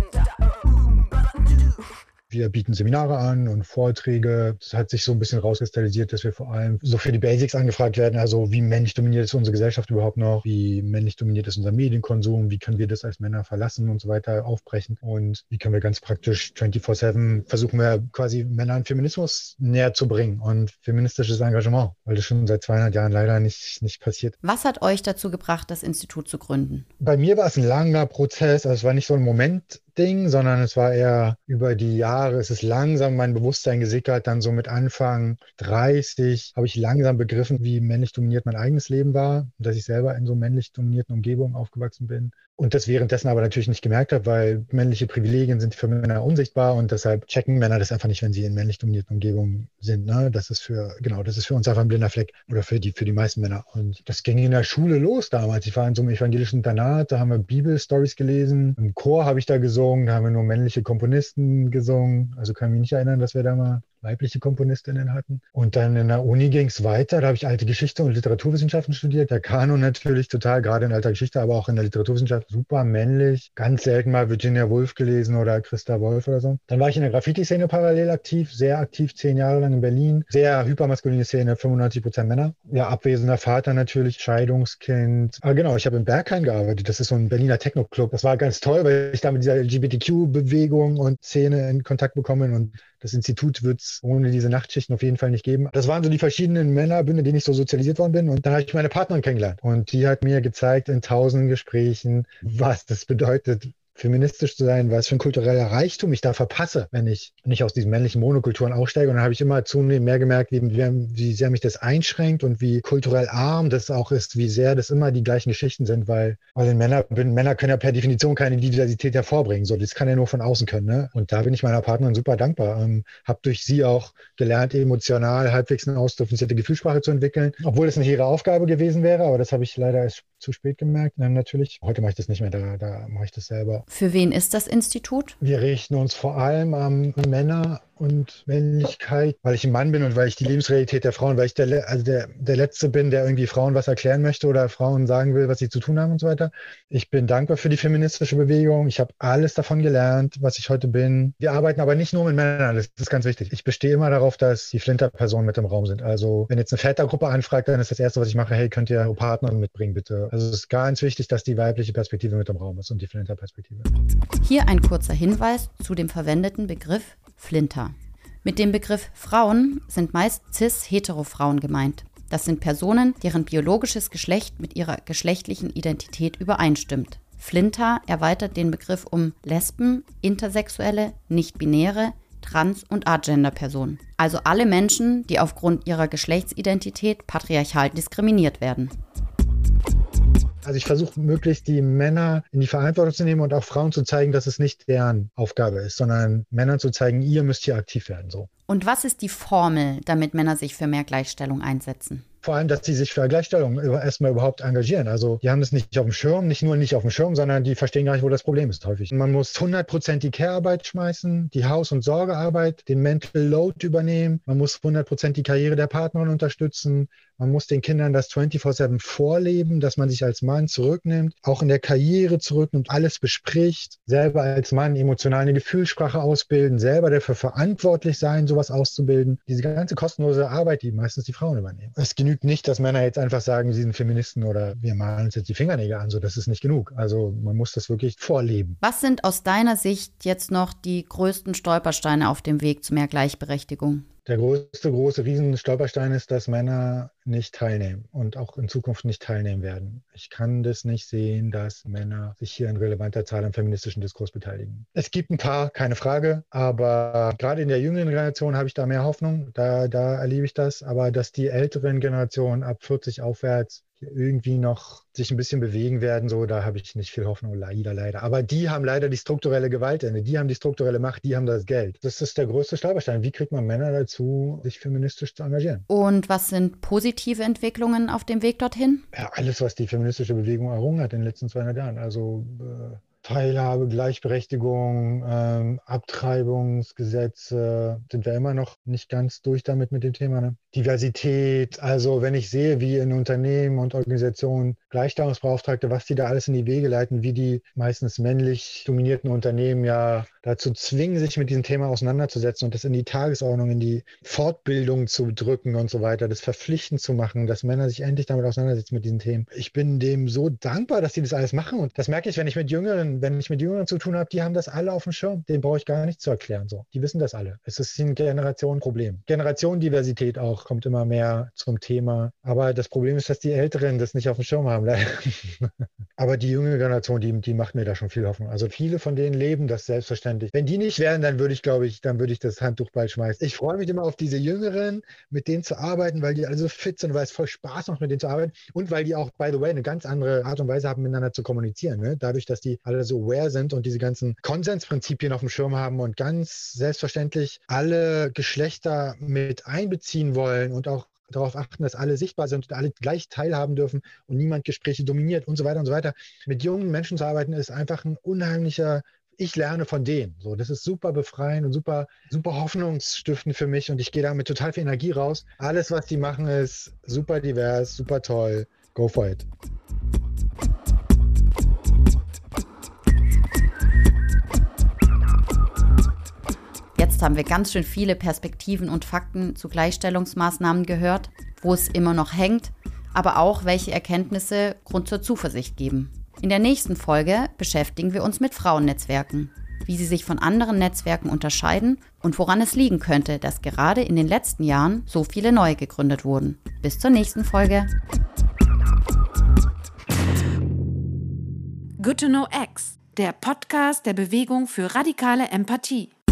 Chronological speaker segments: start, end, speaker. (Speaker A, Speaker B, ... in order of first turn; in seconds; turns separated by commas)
Speaker A: 2.3-24.3, Speaker B: 24.4-26.9, Speaker A: 27.0-133.8, Speaker B: 133.9-135.4, Speaker A: 135.4-163.9, Speaker B: 164.4-188.9, Speaker A: 190.6-198.5, Speaker B: 198.7-202.2, Speaker A: 202.4-238.8, Speaker B: 238.8-244.1, Speaker A: 244.3-275.8, Speaker B: 275.9-279.1, Speaker A: 279.1-369.4, Speaker B: 377.0-397.9, Speaker C: 402.0-406.1